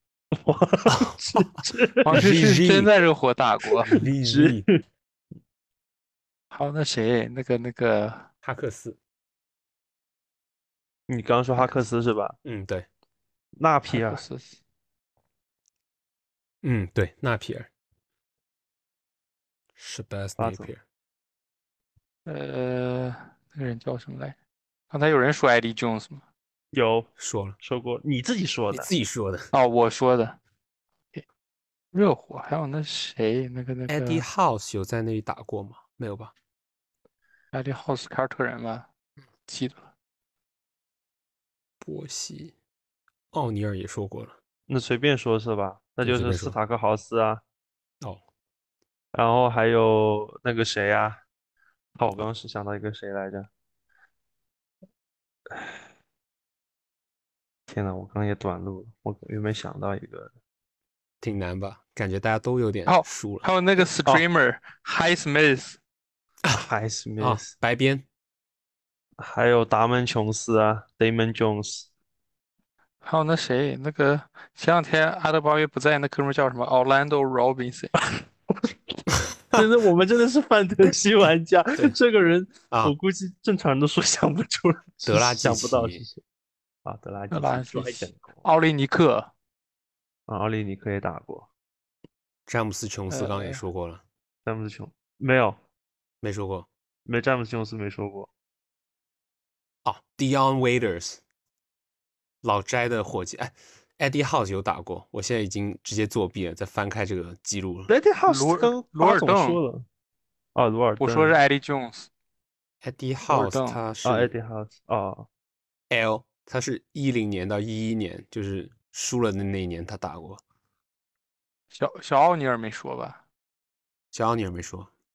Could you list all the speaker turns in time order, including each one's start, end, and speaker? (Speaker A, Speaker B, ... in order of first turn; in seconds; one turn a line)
Speaker A: 0.3-2.3
Speaker B: 0.9-2.9
Speaker C: 2.0-3.9
Speaker B: 3.9-4.6
Speaker A: 3.9-4.8
Speaker C: 6.5-8.3
Speaker B: 8.4-9.0
Speaker A: 11.1-12.3
Speaker B: 12.4-12.8
Speaker A: 13.6-14.2
Speaker C: 13.9-14.6
Speaker B: 16.6-17.7
Speaker B: 19.8-20.8
Speaker A: 20.4-20.7
Speaker C: 22.2-24.4
Speaker C: 24.9-26.2
Speaker A: 26.7-28.9
Speaker B: 27.2-27.6
Speaker B: 28.7-29.5
Speaker C: 29.5-30.4
Speaker C: 31.9-34.2
Speaker B: 33.9-36.3
Speaker C: 37.5-38.9
Speaker C: 39.5-39.9
Speaker B: 41.8-42.5
Speaker B: 43.3-44.3
Speaker A: 44.7-47.4
Speaker B: 46.0-46.5
Speaker A: 49.1-51.2
Speaker A: 52.0-53.5
Speaker A: 57.7-60.3
Speaker B: 61.2-63.5
Speaker C: 62.9-65.8
Speaker A: 66.5-67.5
Speaker B: 67.2-68.0
Speaker A: 69.2-71.9
Speaker C: 73.0-77.9
Speaker A: 78.0-79.0
Speaker A: 79.5-86.2
Speaker B: 85.0-86.0
Speaker A: 86.8-88.4
Speaker C: 87.3-89.3
Speaker A: 90.3-91.5
Speaker B: 92.5-94.0
Speaker C: 93.1-93.6
Speaker A: 94.5-95.6
Speaker B: 96.2-96.7
Speaker A: 97.0-98.3
Speaker B: 99.8-101.2
Speaker B: 102.4-107.9
Speaker A: 107.9-109.8
Speaker C: 108.3-109.6
Speaker A: 110.5-111.3
Speaker C: 111.0-112.1
Speaker B: 112.8-114.3
Speaker C: 113.3-113.8
Speaker A: 114.0-115.3
Speaker B: 115.9-120.4
Speaker C: 121.7-123.2
Speaker B: 124.1-124.9